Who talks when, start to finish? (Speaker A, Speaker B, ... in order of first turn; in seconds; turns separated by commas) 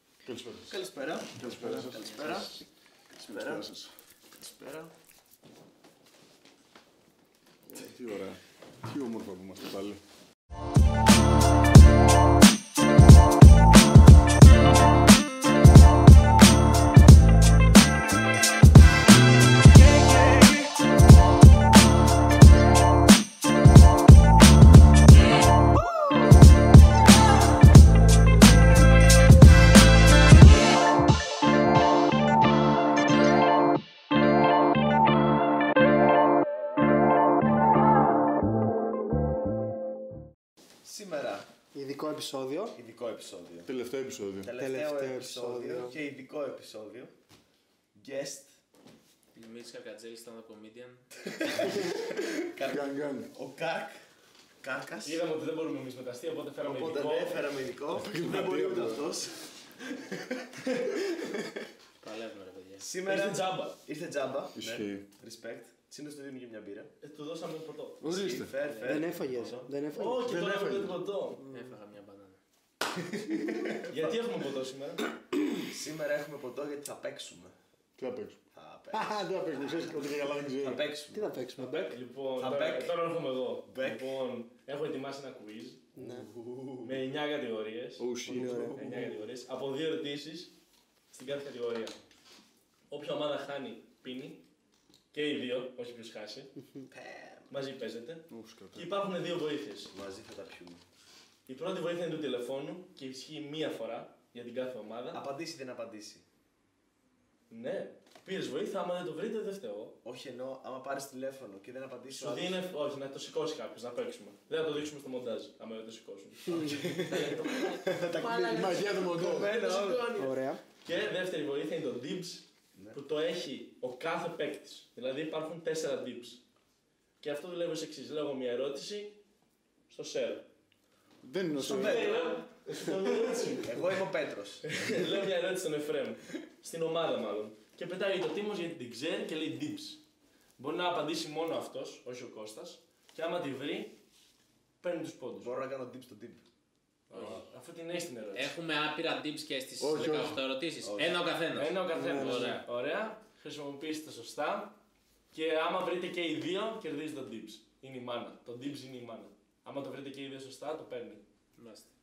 Speaker A: 0.2-0.8, Speaker B: 0.7-2.6, Speaker A: 1.4-2.6, Speaker A: 3.2-3.9, Speaker B: 3.2-3.6, Speaker B: 4.4-4.9, Speaker A: 7.7-10.0, Speaker B: 40.8-41.5, Speaker C: 41.7-42.8, Speaker B: 42.8-43.7, Speaker A: 43.6-44.5, Speaker B: 44.4-47.1, Speaker C: 44.6-46.0, Speaker B: 48.0-48.5, Speaker D: 49.4-51.0, Speaker B: 51.3-54.0, Speaker A: 52.6-53.3, Speaker B: 54.6-55.2, Speaker E: 55.0-57.5, Speaker B: 56.6-61.5, Speaker A: 57.9-59.1, Speaker D: 62.0-62.9, Speaker B: 62.8-66.9, Speaker E: 63.0-63.8, Speaker A: 64.5-65.1, Speaker E: 67.0-68.1, Speaker A: 68.0-68.5, Speaker B: 68.0-69.7, Speaker D: 68.6-69.5, Speaker C: 68.8-70.3, Speaker E: 69.5-71.4, Speaker A: 70.2-71.0, Speaker C: 71.5-71.8, Speaker D: 71.5-72.4, Speaker B: 72.9-74.2, Speaker E: 73.9-75.0, Speaker B: 75.6-77.5, Speaker A: 78.0-78.4, Speaker B: 78.5-80.0, Speaker A: 78.9-80.8, Speaker B: 80.6-81.3, Speaker C: 81.1-82.0, Speaker E: 81.9-85.8, Speaker B: 82.4-82.9, Speaker B: 83.7-84.1, Speaker C: 86.0-86.3, Speaker B: 86.0-87.0, Speaker E: 86.8-90.5, Speaker A: 88.0-88.7, Speaker C: 88.3-88.8, Speaker B: 88.4-89.2, Speaker E: 91.1-92.0, Speaker E: 92.9-94.4, Speaker E: 95.1-96.5, Speaker B: 96.9-97.5, Speaker E: 97.5-99.9, Speaker A: 98.3-99.0, Speaker B: 99.9-100.8, Speaker E: 101.5-105.2, Speaker B: 105.1-106.2, Speaker E: 107.5-110.0, Speaker B: 110.0-112.6, Speaker E: 112.1-126.4, Speaker B: 116.5-120.2, Speaker A: 118.4-119.6, Speaker C: 120.1-120.6, Speaker E: 127.2-129.2, Speaker E: 129.9-130.4, Speaker A: 131.2-132.1, Speaker B: 131.6-134.8, Speaker E: 131.6-133.8, Speaker E: 134.7-140.0, Speaker E: 140.6-144.0, Speaker E: 144.8-145.5, Speaker B: 145.4-146.4, Speaker E: 147.1-148.5, Speaker D: 147.1-147.4, Speaker D: 148.3-152.6, Speaker A: 149.8-150.4, Speaker B: 150.8-151.3, Speaker E: 151.6-154.8, Speaker C: 151.9-152.6, Speaker E: 155.3-161.2, Speaker D: 161.6-161.9